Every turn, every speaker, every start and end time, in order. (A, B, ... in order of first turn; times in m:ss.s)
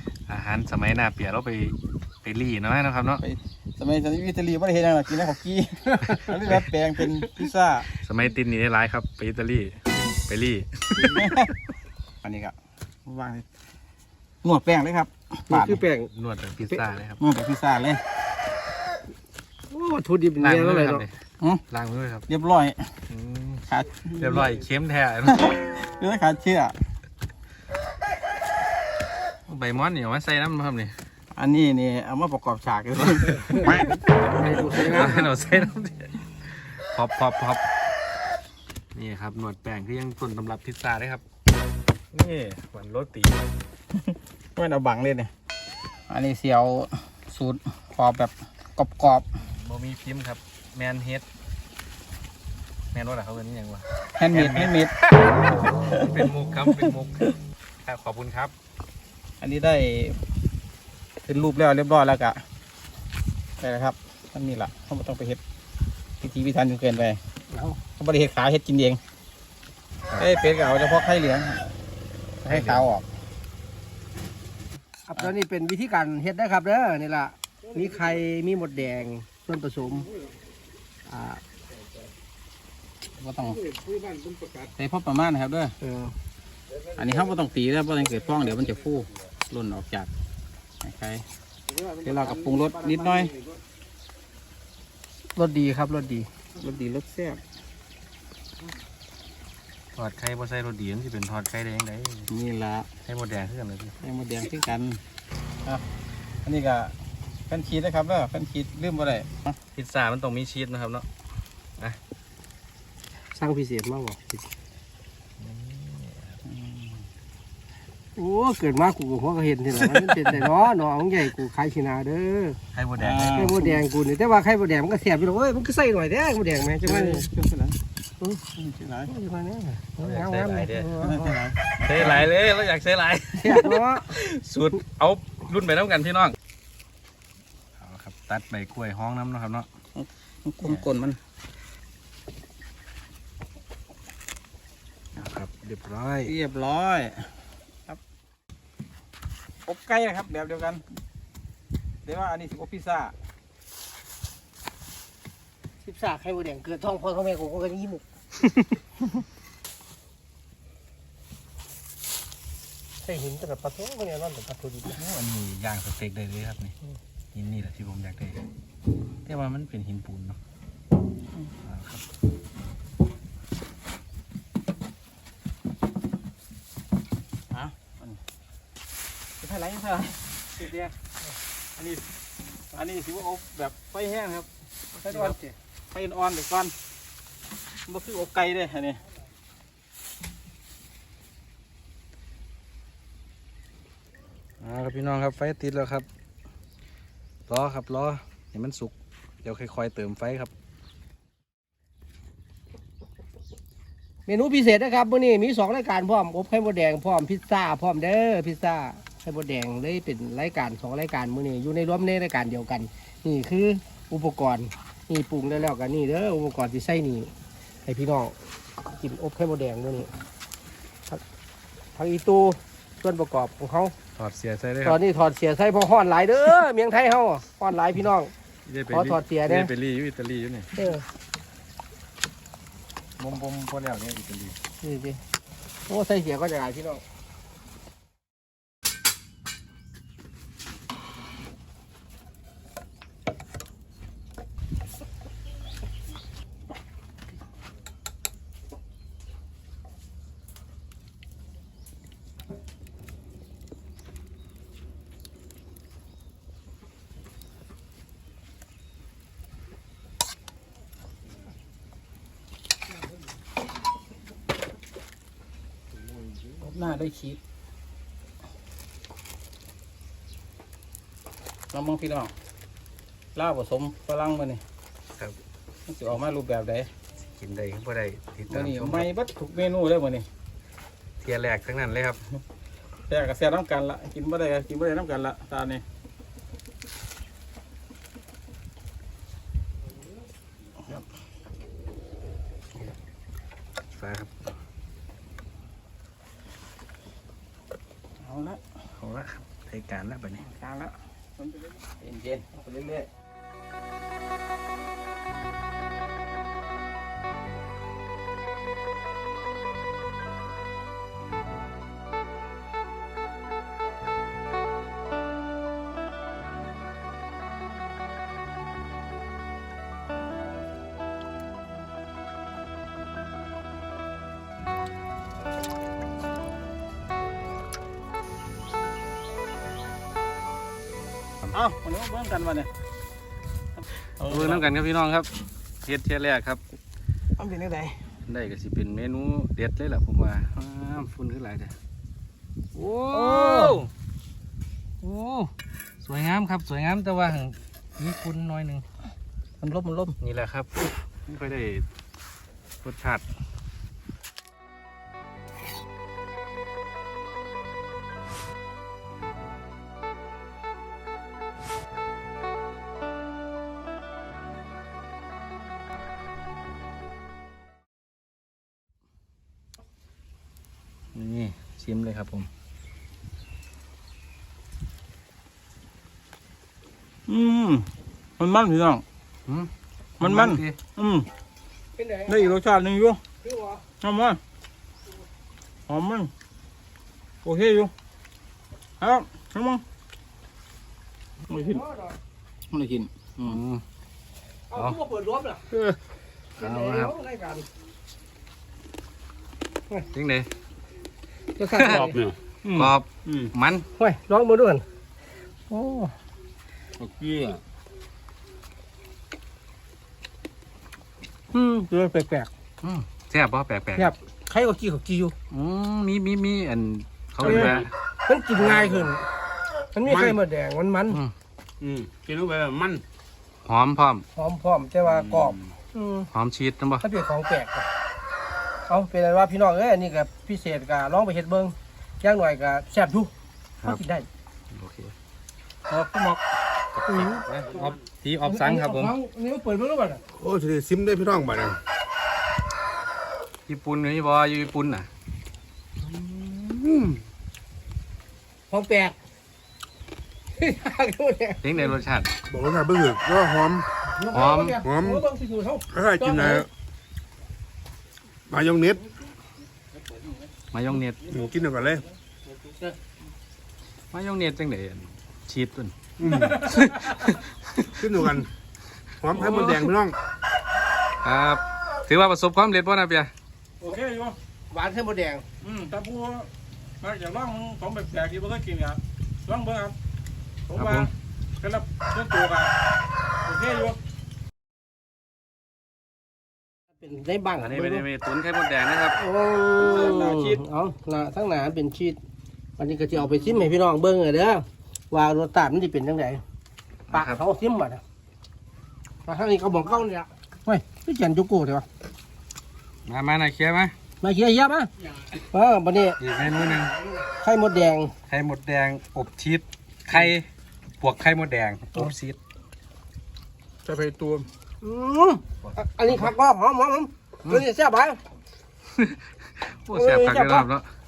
0:00.3-0:03.2 A
0:03.2-0:07.9 B
0:08.0-0:11.3 A
0:11.0-0:11.5 B
0:12.2-0:12.6 B
0:13.1-0:13.4 B
0:14.4-0:15.8 B
0:15.5-0:16.1 C
0:16.1-0:17.2 A
0:17.2-0:18.0 B
0:19.7-0:21.0 C
0:20.4-0:21.1 A
0:21.7-0:22.2 A
0:22.3-0:22.9 B
0:23.1-0:25.4 A
0:23.7-0:24.5 B
0:25.2-0:26.8 B
0:29.5-0:31.0 A
0:31.3-0:34.0 B
0:34.3-0:35.3 C
0:34.8-0:37.6 A
0:39.0-0:41.2 A
0:42.1-0:43.4 A
0:44.1-0:45.3 B
0:46.1-0:49.3 B
0:49.4-0:51.2 A
0:52.9-0:54.8 A
0:54.2-0:55.0 B
0:55.9-0:57.3 A
0:55.9-0:56.9 B
0:57.8-0:58.5 A
0:59.4-1:00.2 B
1:01.2-1:02.4 B
1:03.6-1:05.4 B
1:06.2-1:07.2 B
1:07.5-1:07.8 C
1:08.0-1:09.0 B
1:10.2-1:11.7 B
1:12.4-1:13.1 B
1:12.5-1:12.9 A
1:15.1-1:20.1 C
1:21.1-1:21.4 C
1:23.2-1:23.7 B
1:24.6-1:25.8 B
1:25.8-1:26.1 C
1:27.0-1:30.1 B
1:30.8-1:31.2 B
1:31.9-1:33.4 B
1:35.4-1:36.3 C
1:36.6-1:37.4 B
1:40.0-1:42.3 A
1:42.3-1:42.9 B
1:43.1-1:44.0 A
1:44.0-1:45.0 B
1:46.4-1:46.9 B
1:47.5-1:49.6 B
1:49.8-1:51.1 A
1:53.3-1:54.4 C
1:55.4-1:56.4 A
1:56.5-1:57.0 B
1:58.2-2:02.6 C
2:02.7-2:03.6 A
2:03.0-2:03.8 B
2:03.4-2:07.3 C
2:06.8-2:07.8 B
2:08.6-2:09.1 B
2:09.1-2:11.4 C
2:10.0-2:10.9 A
2:11.0-2:12.2 B
2:11.8-2:16.4 A
2:13.4-2:14.2 C
2:17.8-2:19.7 A
2:20.0-2:21.2 B
2:25.2-2:26.3 A
2:26.3-2:27.3 B
2:29.6-2:30.8 B
2:32.0-2:33.1 B
2:35.8-2:38.0 C
2:43.0-2:45.0 C
2:44.9-2:46.7 A
2:47.3-2:48.4 A
2:49.3-2:50.4 A
2:51.6-2:52.0 A
2:57.5-2:58.2 B
2:59.4-3:00.2 B
3:00.6-3:00.9 C
3:01.8-3:02.0 B
3:02.7-3:04.5 B
3:05.0-3:05.4 B
3:05.0-3:05.6 C
3:05.9-3:06.7 B
3:07.9-3:09.0 B
3:14.6-3:16.1 A
3:17.5-3:18.9 A
3:19.4-3:20.5 A
3:24.3-3:37.3 C
3:37.8-3:38.3 C
3:38.9-3:40.1 C
3:42.0-3:43.9 C
3:44.2-3:45.0 A
3:44.8-3:48.3 C
3:48.7-3:50.7 A
3:48.9-3:49.7 C
3:50.8-3:51.0 C
3:53.2-3:54.6 A
3:54.8-3:55.2 C
3:55.9-3:57.0 C
4:26.6-4:27.4 B
4:31.7-4:32.3 B
4:33.4-4:34.6 B
4:35.9-4:36.9 B
4:37.4-4:39.1 A
4:38.5-4:40.3 B
4:41.2-4:42.2 A
4:43.1-4:45.8 B
4:53.9-4:54.3 A
4:58.2-4:58.6 B
4:59.0-5:00.4 A
5:00.4-5:03.1 B
5:31.5-5:32.7 B
5:34.2-5:34.7 B
5:34.2-5:35.3 A
5:35.8-5:36.6 A
5:37.4-5:38.0 B
5:38.3-5:41.7 A
5:42.8-5:43.8 B
5:43.1-5:43.9 A
5:45.0-5:45.5 A
5:46.0-5:48.8 A
5:49.6-5:50.2 B
5:50.2-5:51.8 A
5:52.8-5:53.2 A
6:11.1-6:12.5 A
6:17.3-6:17.9 B
6:18.4-6:19.0 B
6:20.2-6:21.3 B
6:20.2-6:20.8 A
6:22.0-6:22.6 C
6:22.3-6:23.2 B
6:23.4-6:23.8 C
6:24.0-6:24.4 B
6:25.9-6:26.3 B
6:27.4-6:27.9 B
6:29.0-6:29.8 B
6:31.5-6:31.8 B
6:31.8-6:32.1 C
6:32.7-6:33.6 B
6:33.4-6:33.8 A
6:34.7-6:35.7 C
6:36.6-6:37.7 C
6:36.6-6:37.1 A
6:40.1-6:40.5 A
6:41.6-6:42.2 C
6:41.8-6:42.1 A
6:42.7-6:42.9 B
6:42.7-6:43.9 A
6:44.0-6:44.8 C
6:45.7-6:46.1 C
6:51.5-6:52.5 C
6:52.8-6:54.1 A
6:54.0-6:55.4 C
6:55.5-6:57.9 A
6:57.4-6:57.8 B
6:57.4-6:59.2 C
7:00.0-7:01.2 C
7:01.8-7:02.9 D
7:03.6-7:04.2 A
7:04.4-7:06.3 C
7:06.3-7:07.0 A
7:07.0-7:07.9 C
7:08.9-7:13.3 C
7:13.8-7:14.3 C
7:14.7-7:15.1 A
7:15.9-7:16.4 B
7:17.0-7:19.1 A
7:17.1-7:17.5 C
7:18.5-7:20.2 C
7:20.4-7:21.8 D
7:23.7-7:25.1 A
7:26.3-7:27.2 D
7:28.7-7:29.2 C
7:30.6-7:31.6 C
7:31.6-7:32.3 A
7:32.5-7:33.9 D
7:34.1-7:36.7 C
7:34.3-7:34.8 A
7:34.9-7:35.2 D
7:35.9-7:36.6 D
7:38.5-7:39.0 D
7:40.7-7:41.2 A
7:41.3-7:42.0 D
7:44.1-7:45.9 A
7:46.2-7:46.6 D
7:46.3-7:46.6 B
7:46.6-7:48.3 A
7:48.0-7:48.5 D
7:49.2-7:50.2 D
7:49.3-7:49.9 A
7:51.2-7:53.3 A
7:53.8-7:54.4 B
7:54.7-7:55.4 C
7:55.6-7:56.5 B
7:57.0-8:00.0 B
8:00.7-8:02.7 B
8:00.8-8:01.1 A
8:03.5-8:04.0 B
8:07.0-8:08.0 C
8:07.6-8:09.2 A
8:09.2-8:12.2 C
8:09.8-8:10.6 B
8:12.8-8:16.4 C
8:17.1-8:17.4 A
8:17.1-8:18.0 C
8:19.3-8:21.9 C
8:23.1-8:23.9 A
8:24.2-8:26.2 C
8:26.2-8:27.0 A
8:27.4-8:28.1 C
8:28.3-8:30.5 A
8:31.0-8:32.4 A
8:33.9-8:34.5 B
8:34.8-8:38.2 C
8:39.0-8:40.9 A
8:39.9-8:40.7 C